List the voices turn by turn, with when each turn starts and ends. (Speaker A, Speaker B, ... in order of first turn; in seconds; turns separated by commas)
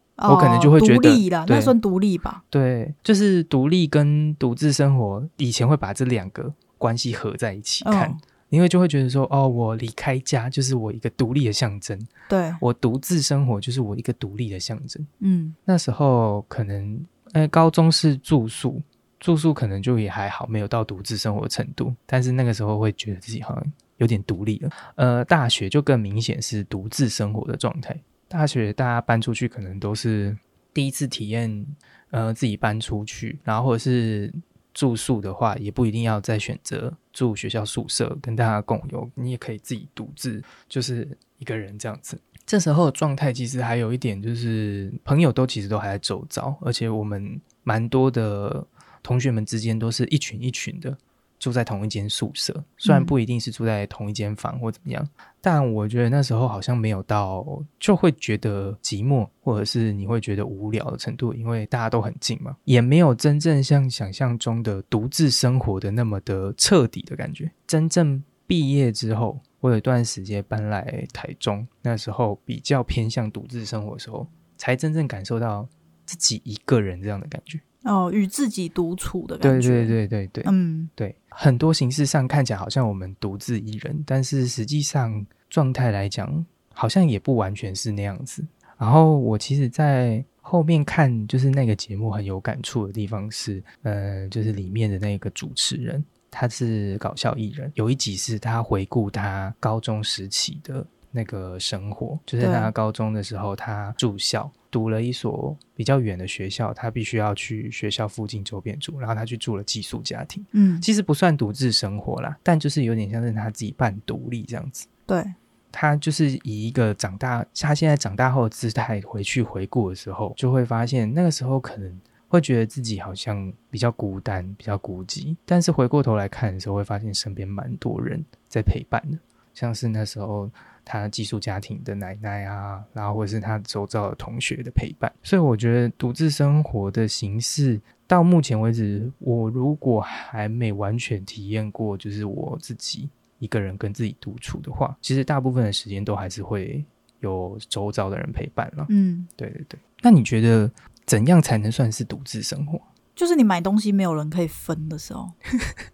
Speaker A: 0.2-2.4, Speaker B: 0.2-1.7, Speaker B: 2.5-15.1, Speaker A: 7.8-8.2, Speaker A: 12.3-12.6, Speaker A: 15.2-15.6, Speaker B: 15.7-77.6, Speaker A: 52.8-53.1, Speaker A: 77.8-80.9, Speaker B: 79.4-114.9, Speaker A: 102.4-102.7, Speaker A: 110.5-110.8, Speaker A: 115.1-115.3, Speaker B: 115.7-152.8, Speaker A: 148.9-149.3, Speaker A: 153.2-155.3